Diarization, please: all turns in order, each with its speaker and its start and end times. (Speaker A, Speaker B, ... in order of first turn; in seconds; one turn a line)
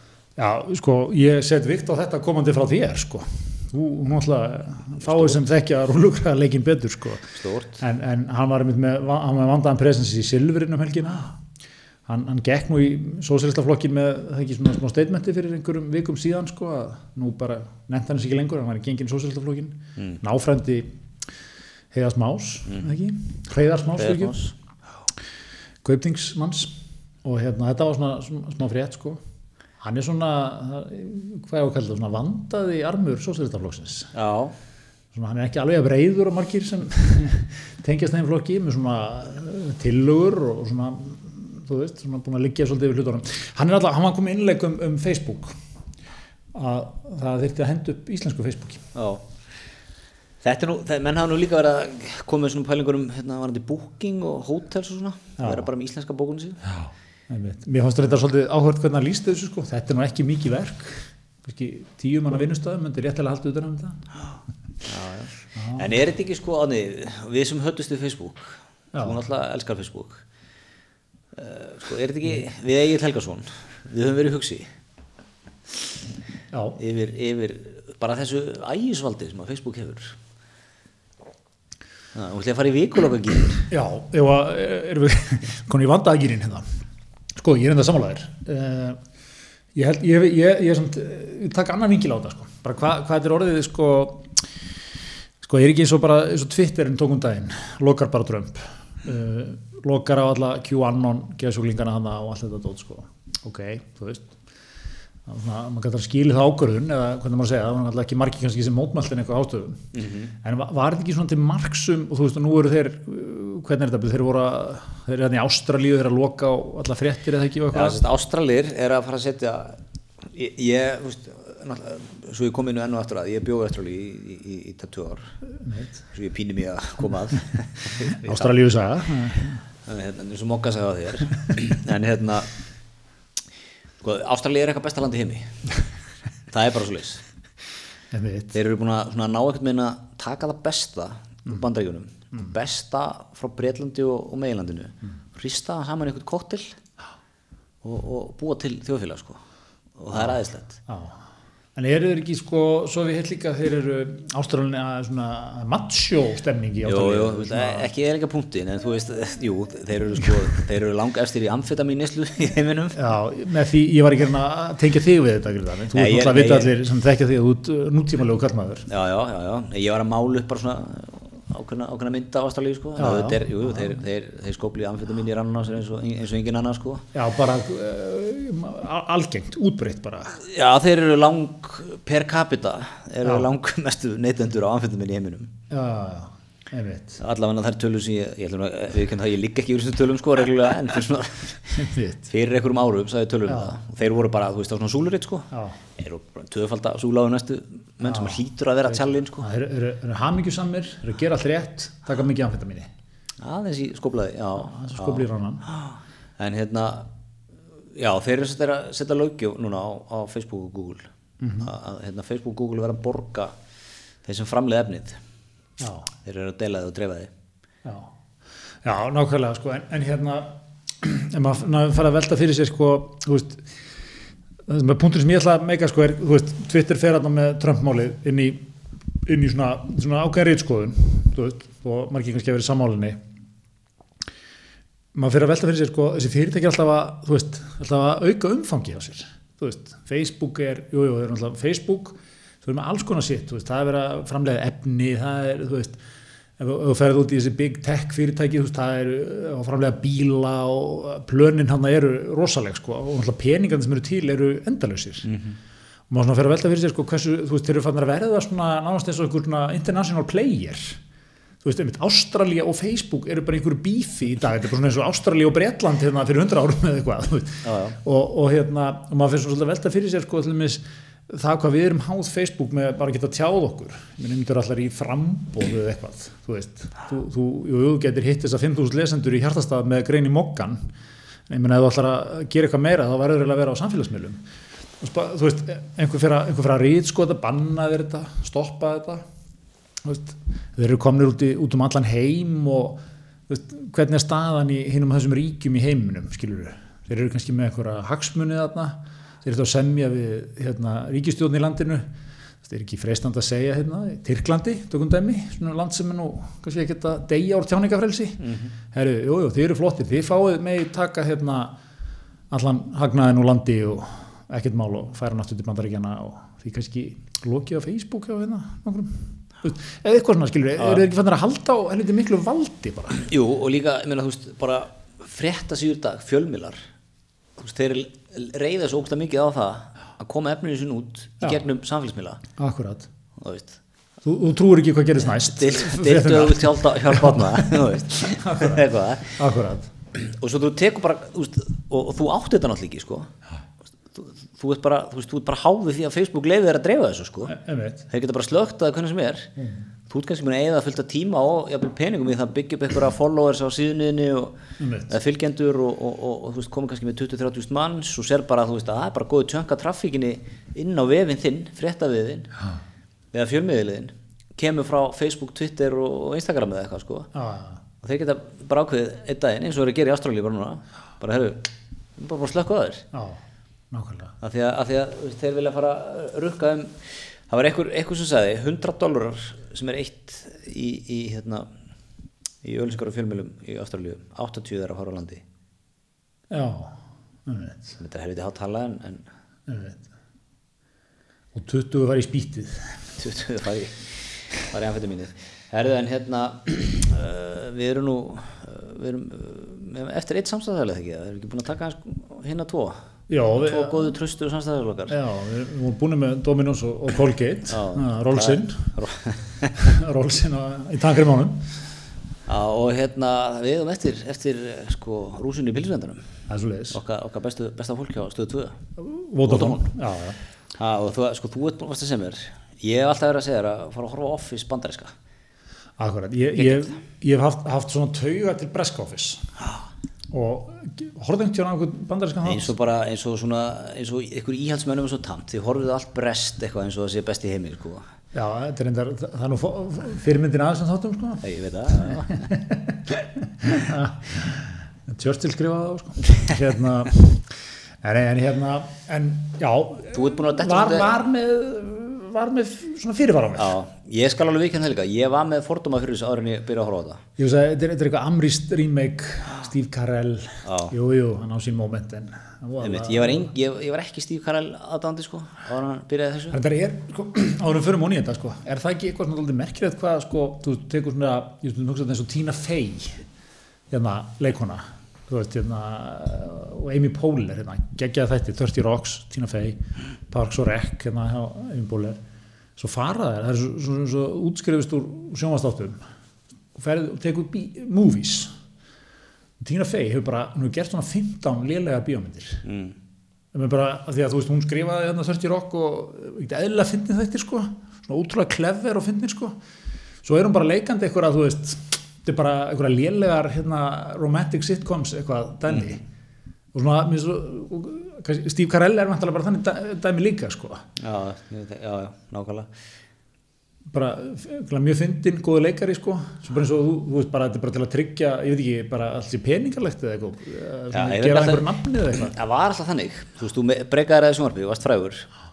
Speaker A: 0.4-11.3
Speaker B: 5.1-5.4
Speaker B: 7.4-7.8
Speaker A: 12.1-20.9
Speaker A: 21.9-24.4
Speaker B: 24.0-24.5
Speaker A: 25.8-29.2
Speaker A: 29.8-34.1
Speaker B: 34.1-34.5
Speaker A: 35.1-45.5
Speaker A: 46.5-48.9
Speaker B: 49.0-49.2
Speaker B: 50.4-56.7
Speaker A: 55.4-55.7
Speaker A: 57.3-64.0
Speaker B: 64.8-70.2
Speaker A: 65.6-65.9
Speaker B: 71.4-74.7
Speaker A: 76.5-76.8
Speaker B: 76.8-80.2
Speaker B: 82.2-83.7
Speaker A: 83.7-86.7
Speaker A: 87.4-89.0
Speaker A: 89.8-94.3
Speaker A: 95.4-104.3
Speaker A: 105.3-109.8
Speaker B: 109.9-110.3
Speaker A: 110.4-118.0
Speaker B: 117.7-119.8
Speaker B: 120.3-125.3
Speaker A: 125.5-126.0
Speaker B: 126.1-128.5
Speaker A: 128.1-129.6
Speaker B: 129.9-132.5
Speaker B: 134.0-135.6
Speaker B: 136.5-137.2
Speaker A: 138.1-138.6
Speaker B: 138.5-146.8
Speaker B: 147.8-149.4
Speaker B: 150.0-150.8
Speaker A: 150.9-151.2
Speaker A: 151.8-157.9
Speaker B: 156.8-163.0
Speaker A: 162.9-168.9
Speaker B: 165.9-166.7
Speaker B: 168.9-177.1
Speaker A: 173.0-174.0
Speaker A: 177.1-180.4
Speaker B: 180.4-185.5
Speaker A: 185.7-187.2
Speaker B: 187.2-199.5
Speaker A: 191.8-192.3
Speaker A: 193.5-193.7
Speaker A: 198.0-202.9
Speaker B: 203.4-207.1
Speaker A: 204.6-205.7
Speaker B: 207.9-211.1
Speaker A: 211.4-211.7
Speaker B: 211.6-213.5
Speaker B: 214.2-215.2
Speaker A: 215.8-216.1
Speaker B: 216.2-217.3
Speaker A: 217.8-218.1
Speaker A: 218.8-223.7
Speaker A: 224.7-228.7
Speaker A: 229.3-233.2
Speaker A: 235.1-246.0
Speaker A: 246.6-255.3
Speaker B: 255.3-255.6
Speaker A: 256.1-261.0
Speaker A: 261.6-280.8
Speaker B: 267.6-268.0
Speaker A: 281.5-284.4
Speaker A: 285.0-289.2
Speaker A: 290.0-302.1
Speaker A: 302.6-311.8
Speaker B: 308.4-308.7
Speaker A: 312.5-323.2
Speaker B: 323.2-326.8
Speaker B: 327.6-332.4
Speaker A: 332.6-333.1
Speaker B: 333.4-333.8
Speaker A: 334.2-337.8
Speaker B: 335.2-339.4
Speaker A: 338.3-339.9
Speaker B: 340.1-343.3
Speaker B: 344.1-347.6
Speaker A: 347.5-348.0
Speaker B: 348.1-349.5
Speaker A: 349.6-349.9
Speaker B: 350.1-354.6
Speaker A: 354.8-355.1
Speaker B: 355.1-362.5
Speaker B: 363.3-367.3
Speaker A: 367.3-367.8
Speaker B: 368.0-373.1
Speaker A: 373.1-373.4
Speaker A: 373.9-374.4
Speaker B: 374.4-377.0
Speaker B: 377.5-381.7
Speaker B: 382.6-385.4
Speaker A: 386.5-388.0
Speaker B: 388.0-389.2
Speaker A: 389.7-390.0
Speaker A: 391.5-392.9
Speaker B: 393.2-394.1
Speaker B: 394.7-403.0
Speaker A: 403.3-404.1
Speaker B: 403.6-405.2
Speaker A: 405.1-408.9
Speaker B: 407.7-409.8
Speaker A: 409.7-411.6
Speaker B: 412.5-416.2
Speaker A: 416.5-417.0
Speaker B: 416.9-418.8
Speaker A: 419.0-420.4
Speaker B: 419.4-419.9
Speaker B: 420.8-425.1
Speaker A: 426.0-429.4
Speaker B: 426.6-426.9
Speaker A: 430.3-432.7
Speaker B: 432.4-438.0
Speaker A: 438.3-441.4
Speaker B: 441.4-442.5
Speaker A: 442.0-453.7
Speaker B: 450.1-451.2
Speaker B: 453.6-457.2
Speaker A: 457.4-463.5
Speaker B: 460.6-460.9
Speaker B: 462.8-466.6
Speaker A: 466.5-473.2
Speaker A: 473.9-479.8
Speaker A: 480.3-482.2
Speaker A: 482.8-486.0
Speaker A: 486.8-488.5
Speaker A: 489.6-492.6
Speaker B: 492.6-493.0
Speaker A: 493.5-499.6
Speaker A: 500.2-506.0
Speaker A: 506.7-510.8
Speaker B: 511.0-512.7
Speaker A: 513.9-522.3
Speaker B: 520.9-525.3